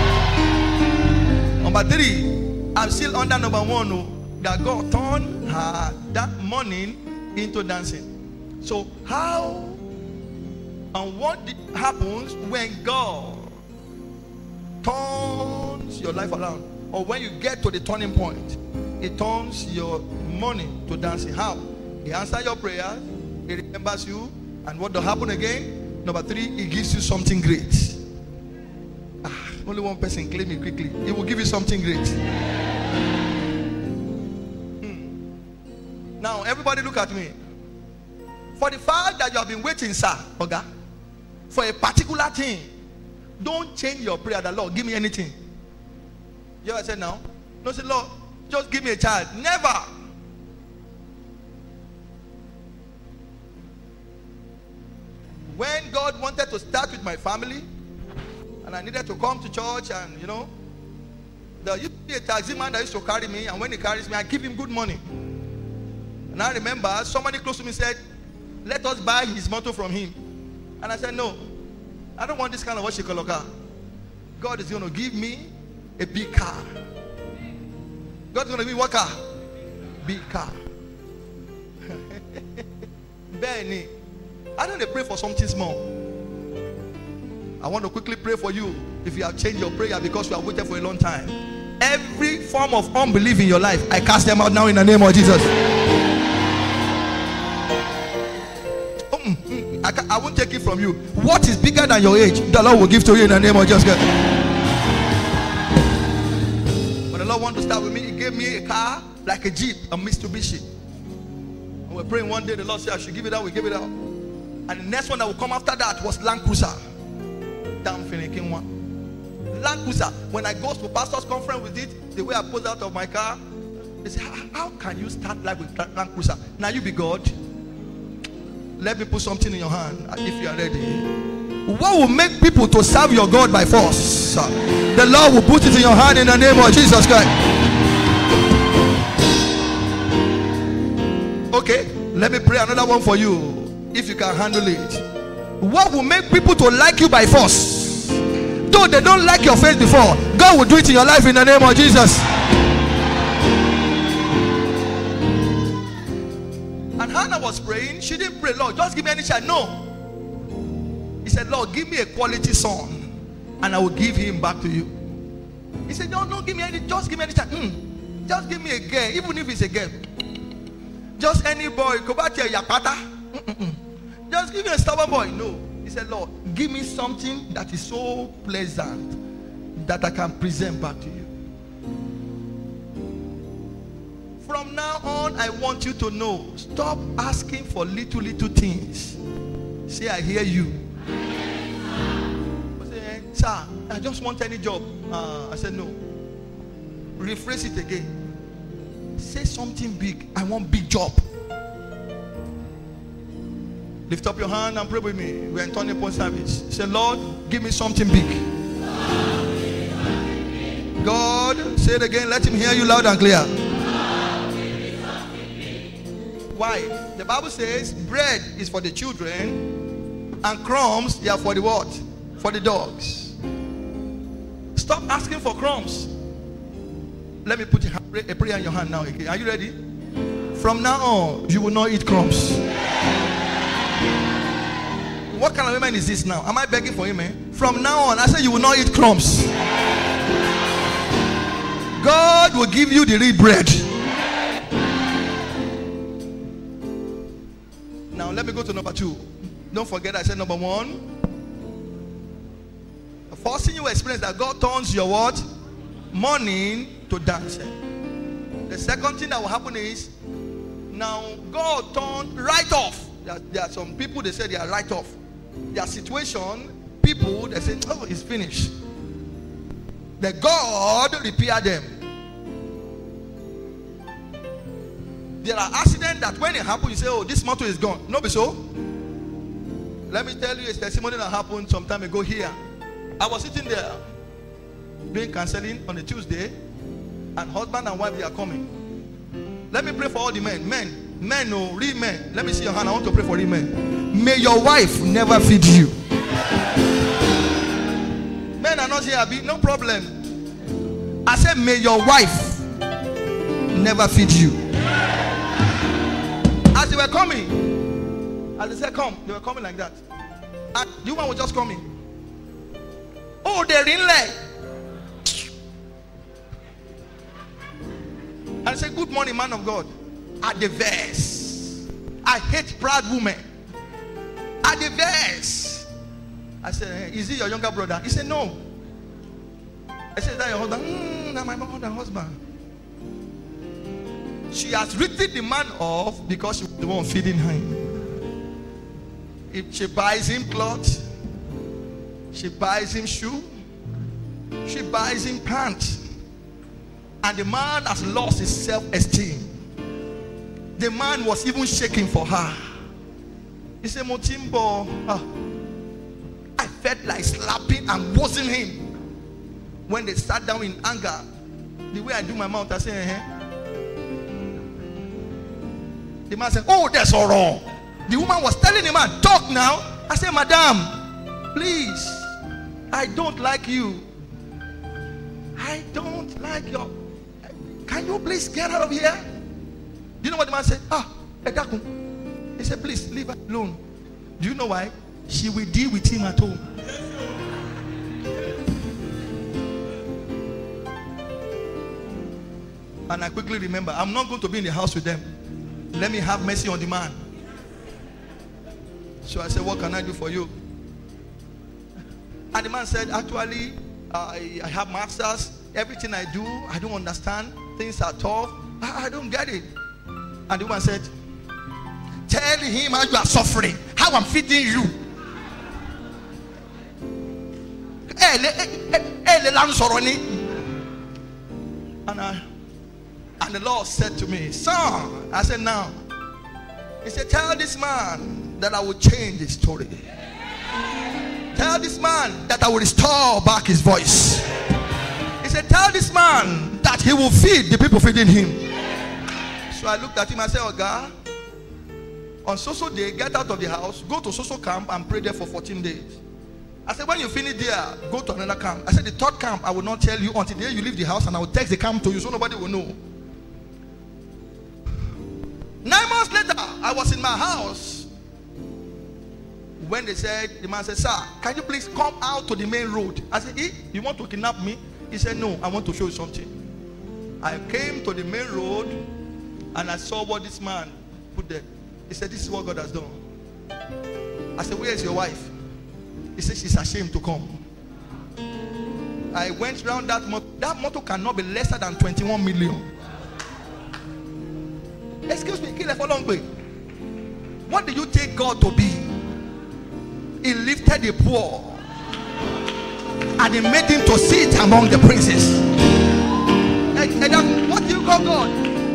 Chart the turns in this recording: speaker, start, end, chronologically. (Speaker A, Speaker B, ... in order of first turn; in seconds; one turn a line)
Speaker A: 1.6-8.1
Speaker A: 8.6-9.8
Speaker A: 10.9-13.6
Speaker A: 14.8-28.0
Speaker A: 29.2-32.2
Speaker A: 34.8-35.1
Speaker A: 36.2-37.4
Speaker A: 38.6-40.6
Speaker A: 41.5-42.7
Speaker A: 43.4-45.4
Speaker A: 46.6-49.9
Speaker A: 55.5-57.7
Speaker A: 58.6-60.5
Speaker A: 61.6-65.0
Speaker A: 66.3-68.0
Speaker A: 68.6-70.2
Speaker A: 70.8-71.5
Speaker A: 72.2-73.5
Speaker A: 74.4-76.7
Speaker A: 78.3-79.2
Speaker A: 80.0-80.6
Speaker A: 81.9-82.7
Speaker A: 83.3-83.9
Speaker A: 84.6-85.9
Speaker A: 87.6-95.5
Speaker A: 99.1-104.1
Speaker A: 107.1-110.7
Speaker A: 111.9-113.9
Speaker A: 114.7-116.8
Speaker A: 117.8-118.7
Speaker A: 119.5-123.4
Speaker A: 124.0-127.3
Speaker A: 128.8-131.1
Speaker A: 131.7-137.3
Speaker A: 141.5-145.0
Speaker A: 145.6-152.3
Speaker A: 157.0-159.8
Speaker A: 161.2-164.9
Speaker A: 165.9-170.1
Speaker A: 171.2-179.2
Speaker A: 179.8-181.3
Speaker A: 184.4-189.2
Speaker A: 189.9-190.8
Speaker A: 192.8-196.0
Speaker A: 197.2-198.1
Speaker A: 199.2-201.2
Speaker A: 204.1-208.4
Speaker A: 211.0-213.5
Speaker A: 216.5-219.7
Speaker A: 220.4-223.4
Speaker A: 224.8-226.1
Speaker A: 227.4-229.8
Speaker A: 230.6-232.6
Speaker A: 235.3-239.5
Speaker A: 242.0-243.9
Speaker A: 248.1-251.1
Speaker A: 253.3-255.4
Speaker A: 256.1-257.8
Speaker A: 258.7-260.1
Speaker A: 260.9-265.1
Speaker A: 265.7-268.7
Speaker A: 270.2-272.0
Speaker A: 275.4-278.6
Speaker A: 280.1-282.6
Speaker A: 283.2-284.0
Speaker A: 285.1-286.6
Speaker A: 287.4-288.7
Speaker A: 289.7-295.9
Speaker A: 298.6-300.1
Speaker A: 301.3-302.6
Speaker A: 303.7-304.6
Speaker A: 306.7-307.6
Speaker A: 308.6-310.0
Speaker A: 310.7-311.8
Speaker A: 313.4-314.4
Speaker A: 318.6-319.9
Speaker A: 320.4-323.4
Speaker A: 324.6-325.9
Speaker A: 326.6-328.6
Speaker A: 330.2-332.4
Speaker A: 334.5-338.0
Speaker A: 339.5-341.0
Speaker A: 342.3-343.5
Speaker A: 344.6-346.0
Speaker A: 347.2-349.5
Speaker A: 350.8-352.7
Speaker A: 353.8-355.2
Speaker A: 356.6-358.9
Speaker A: 359.9-361.2
Speaker A: 361.9-363.3
Speaker A: 366.3-371.0
Speaker A: 371.5-372.3
Speaker A: 372.9-374.1
Speaker A: 375.6-376.9
Speaker A: 377.9-379.2
Speaker A: 380.2-381.9
Speaker A: 382.6-383.8
Speaker A: 384.4-386.7
Speaker A: 393.1-395.2
Speaker A: 395.9-397.2
Speaker A: 399.2-400.5
Speaker A: 402.5-409.7
Speaker A: 410.5-411.1
Speaker A: 412.3-414.9
Speaker A: 418.1-420.4
Speaker A: 422.1-422.4
Speaker A: 423.4-425.9
Speaker A: 427.0-430.1
Speaker A: 431.5-434.5
Speaker A: 435.4-438.6
Speaker A: 439.7-441.1
Speaker A: 442.4-446.2
Speaker A: 446.9-453.0
Speaker A: 455.8-458.1
Speaker A: 459.8-466.5
Speaker A: 467.4-469.0
Speaker A: 469.7-473.2
Speaker A: 474.6-475.5
Speaker A: 476.4-477.6
Speaker A: 479.3-482.9
Speaker A: 485.3-486.5
Speaker A: 487.7-489.1
Speaker A: 490.4-491.9
Speaker A: 493.4-495.6
Speaker A: 496.9-498.6